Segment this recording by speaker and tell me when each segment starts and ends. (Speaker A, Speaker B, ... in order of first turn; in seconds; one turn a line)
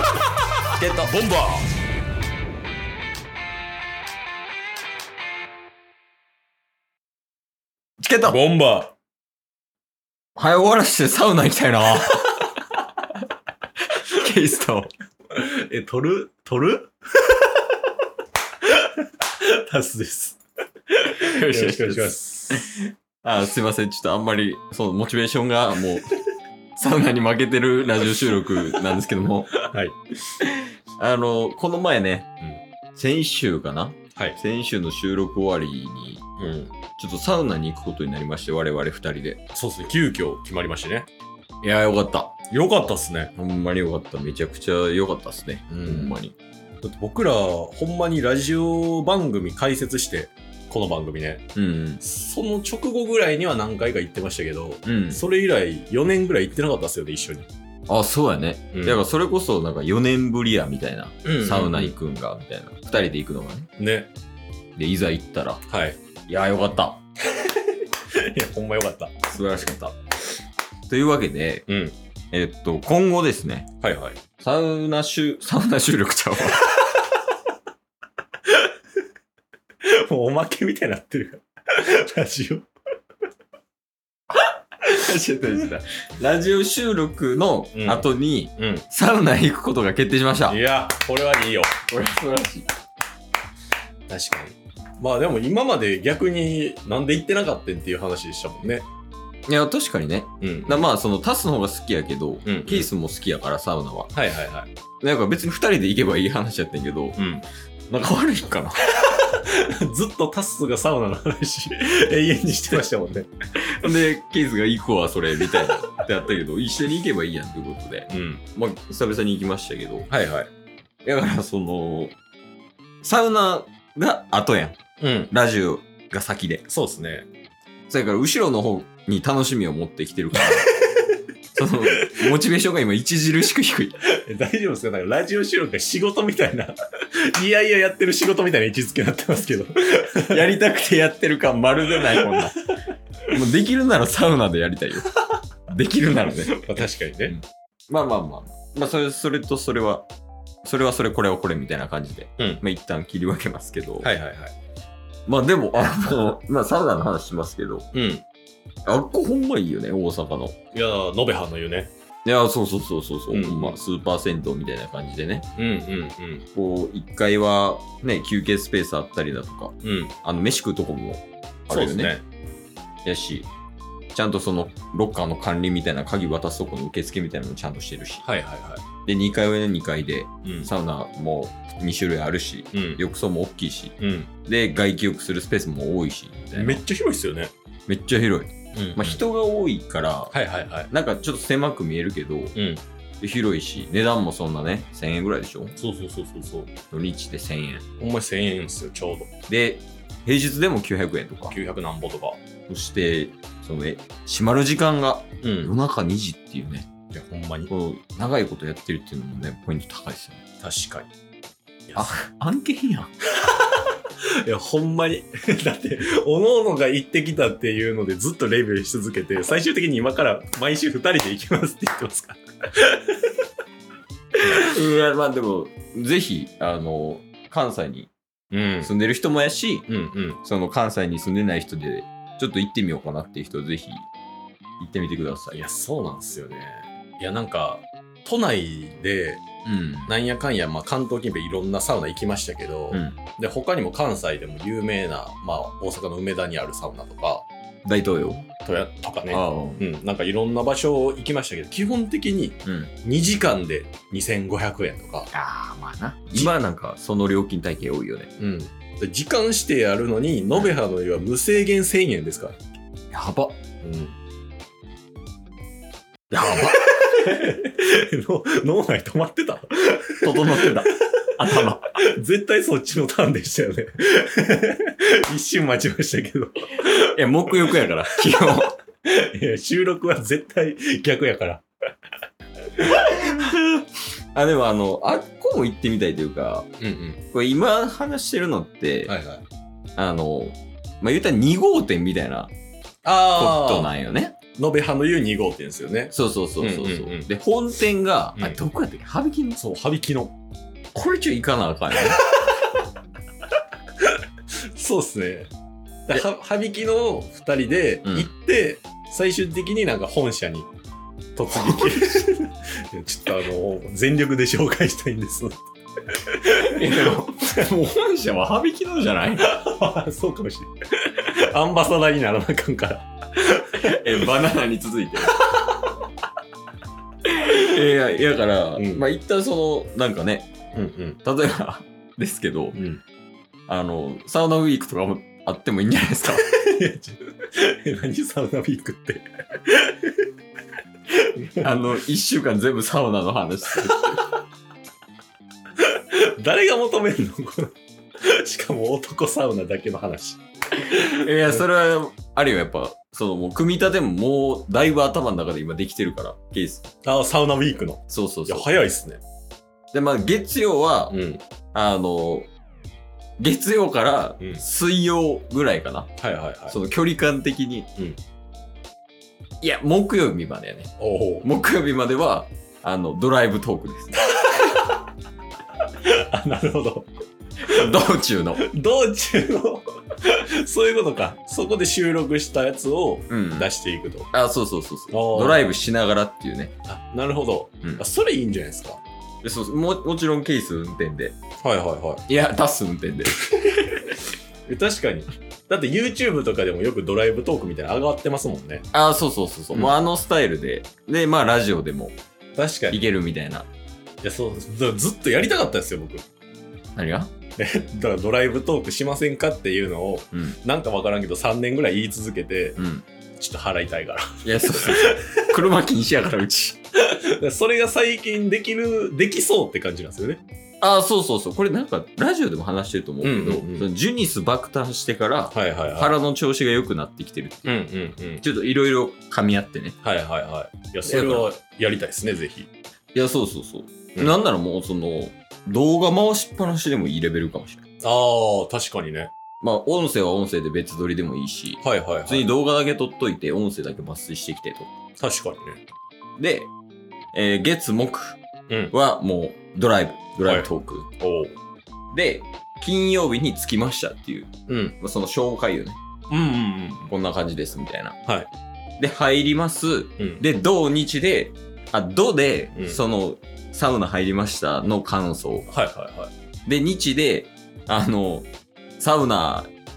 Speaker A: 0.8-1.1
Speaker B: 1.1-1.7
Speaker A: 8.0-8.4
Speaker B: 8.2-8.9
Speaker A: 10.4-12.4
Speaker A: 13.9-14.9
Speaker B: 15.3-17.5
Speaker B: 19.4-20.4
Speaker B: 20.9-22.7
Speaker A: 21.2-26.1
Speaker A: 26.8-29.7
Speaker B: 29.7-30.0
Speaker A: 30.4-32.3
Speaker A: 33.0-36.3
Speaker B: 36.4-36.7
Speaker A: 37.0-39.4
Speaker B: 39.5-41.1
Speaker A: 41.6-42.4
Speaker B: 42.5-43.3
Speaker A: 43.4-46.4
Speaker B: 45.7-46.2
Speaker B: 46.8-51.4
Speaker A: 51.6-52.0
Speaker B: 52.0-57.5
Speaker A: 54.8-55.2
Speaker A: 57.9-63.7
Speaker B: 58.7-59.0
Speaker B: 61.2-62.0
Speaker B: 63.8-64.1
Speaker A: 64.8-65.6
Speaker B: 65.7-66.0
Speaker A: 66.3-67.0
Speaker B: 67.4-69.1
Speaker A: 69.2-70.0
Speaker A: 70.9-71.7
Speaker B: 71.7-72.0
Speaker A: 72.3-73.7
Speaker B: 73.8-74.2
Speaker A: 74.4-76.7
Speaker B: 79.9-82.7
Speaker A: 84.5-90.6
Speaker B: 87.7-88.1
Speaker B: 88.6-88.8
Speaker B: 90.5-91.8
Speaker A: 91.9-92.7
Speaker B: 94.1-98.9
Speaker A: 99.5-104.1
Speaker B: 100.4-100.9
Speaker B: 102.5-102.9
Speaker B: 104.1-104.7
Speaker A: 105.0-107.2
Speaker B: 107.2-107.5
Speaker A: 107.9-108.8
Speaker B: 109.0-113.3
Speaker A: 113.6-120.1
Speaker B: 118.1-118.4
Speaker B: 120.1-120.5
Speaker A: 121.0-122.2
Speaker A: 123.0-124.8
Speaker B: 125.0-125.3
Speaker A: 125.3-126.7
Speaker B: 126.7-127.3
Speaker A: 127.9-130.8
Speaker B: 130.4-130.9
Speaker A: 131.6-134.0
Speaker B: 131.9-132.3
Speaker B: 134.1-136.8
Speaker B: 137.3-140.4
Speaker A: 140.2-142.6
Speaker B: 142.0-142.4
Speaker A: 143.3-145.1
Speaker A: 145.7-150.1
Speaker B: 146.6-147.3
Speaker A: 150.6-154.1
Speaker B: 154.0-154.5
Speaker A: 155.3-157.9
Speaker B: 157.9-158.2
Speaker A: 158.9-160.6
Speaker B: 160.7-161.9
Speaker A: 162.2-165.5
Speaker B: 163.3-163.8
Speaker B: 165.6-166.5
Speaker A: 166.6-172.2
Speaker B: 169.8-170.1
Speaker B: 171.7-172.2
Speaker A: 173.1-173.5
Speaker A: 174.1-178.2
Speaker B: 178.2-178.8
Speaker A: 179.1-186.8
Speaker B: 180.4-180.7
Speaker B: 182.7-183.0
Speaker B: 184.0-184.3
Speaker B: 186.5-187.5
Speaker A: 187.9-190.3
Speaker B: 188.7-189.2
Speaker B: 190.3-190.9
Speaker A: 190.9-192.6
Speaker B: 192.6-192.8
Speaker A: 193.2-195.8
Speaker B: 195.8-196.7
Speaker A: 196.9-197.8
Speaker B: 198.0-199.3
Speaker A: 199.5-201.6
Speaker B: 201.5-202.4
Speaker A: 202.7-206.9
Speaker B: 205.4-205.7
Speaker B: 207.1-207.7
Speaker A: 207.7-210.4
Speaker B: 210.6-211.1
Speaker A: 212.0-213.1
Speaker B: 214.4-223.2
Speaker A: 224.3-228.1
Speaker B: 228.5-228.9
Speaker A: 228.8-229.9
Speaker B: 229.9-230.4
Speaker A: 230.4-234.1
Speaker A: 234.8-235.6
Speaker B: 235.5-239.4
Speaker A: 239.7-240.1
Speaker B: 240.1-247.5
Speaker A: 242.9-243.2
Speaker A: 247.8-248.5
Speaker B: 248.6-255.3
Speaker A: 249.3-249.8
Speaker A: 252.7-252.9
Speaker A: 255.3-258.3
Speaker B: 258.4-262.6
Speaker A: 263.1-263.6
Speaker B: 263.8-264.1
Speaker A: 266.3-267.3
Speaker B: 266.5-270.8
Speaker A: 270.2-271.9
Speaker B: 271.8-276.9
Speaker A: 276.8-278.8
Speaker B: 279.1-281.6
Speaker A: 282.9-286.7
Speaker B: 286.8-287.2
Speaker A: 287.3-289.1
Speaker B: 289.1-289.4
Speaker A: 290.0-292.5
Speaker B: 293.0-293.9
Speaker A: 293.3-294.4
Speaker B: 294.6-297.3
Speaker A: 296.1-299.6
Speaker B: 299.6-300.3
Speaker A: 300.9-302.2
Speaker B: 304.7-305.5
Speaker B: 306.1-310.7
Speaker B: 311.4-315.6
Speaker A: 311.5-312.2
Speaker B: 316.3-317.2
Speaker A: 316.5-319.5
Speaker B: 319.4-324.3
Speaker A: 323.8-325.6
Speaker A: 327.2-330.5
Speaker B: 328.8-329.0
Speaker B: 330.7-331.2
Speaker A: 331.2-332.8
Speaker B: 332.7-333.0
Speaker A: 333.7-336.5
Speaker B: 336.7-340.3
Speaker B: 341.4-341.7
Speaker A: 341.6-344.2
Speaker B: 345.8-351.2
Speaker A: 350.9-356.9
Speaker B: 357.0-359.2
Speaker A: 358.1-358.7
Speaker A: 359.9-361.2
Speaker B: 361.1-361.4
Speaker A: 361.7-362.5
Speaker A: 363.4-366.1
Speaker B: 366.2-366.8
Speaker A: 366.7-367.9
Speaker A: 369.6-370.9
Speaker B: 371.0-371.5
Speaker A: 371.4-374.1
Speaker B: 374.2-375.0
Speaker B: 376.0-377.1
Speaker A: 377.6-378.6
Speaker B: 378.6-384.3
Speaker A: 383.3-383.7
Speaker A: 384.3-386.7
Speaker B: 385.1-385.7
Speaker B: 386.9-389.0
Speaker A: 389.4-391.4
Speaker B: 391.6-392.2
Speaker A: 392.3-394.1
Speaker B: 394.7-398.9
Speaker A: 398.9-402.1
Speaker B: 402.6-403.0
Speaker A: 402.9-403.7
Speaker B: 404.2-406.2
Speaker A: 406.9-407.3
Speaker B: 407.6-412.8
Speaker A: 410.3-410.6
Speaker A: 412.8-413.1
Speaker B: 413.4-415.4
Speaker A: 414.4-416.8
Speaker B: 417.1-420.4
Speaker A: 420.8-427.8
Speaker B: 423.2-423.9
Speaker B: 425.5-426.1
Speaker B: 427.7-428.4
Speaker A: 428.4-430.0
Speaker B: 430.0-432.7
Speaker A: 431.1-431.5
Speaker A: 433.1-437.8
Speaker B: 438.0-439.3
Speaker A: 439.6-444.9
Speaker B: 441.8-442.5
Speaker B: 445.2-445.8
Speaker A: 446.4-446.7
Speaker A: 447.3-448.4
Speaker A: 448.9-451.1
Speaker B: 450.4-450.7
Speaker B: 451.2-451.6
Speaker A: 452.1-456.0
Speaker B: 454.7-455.0
Speaker B: 456.3-457.1
Speaker A: 457.1-458.2
Speaker A: 459.0-465.7
Speaker B: 460.2-460.4
Speaker B: 462.8-463.0
Speaker B: 465.7-466.3
Speaker A: 466.7-468.5
Speaker A: 469.0-469.7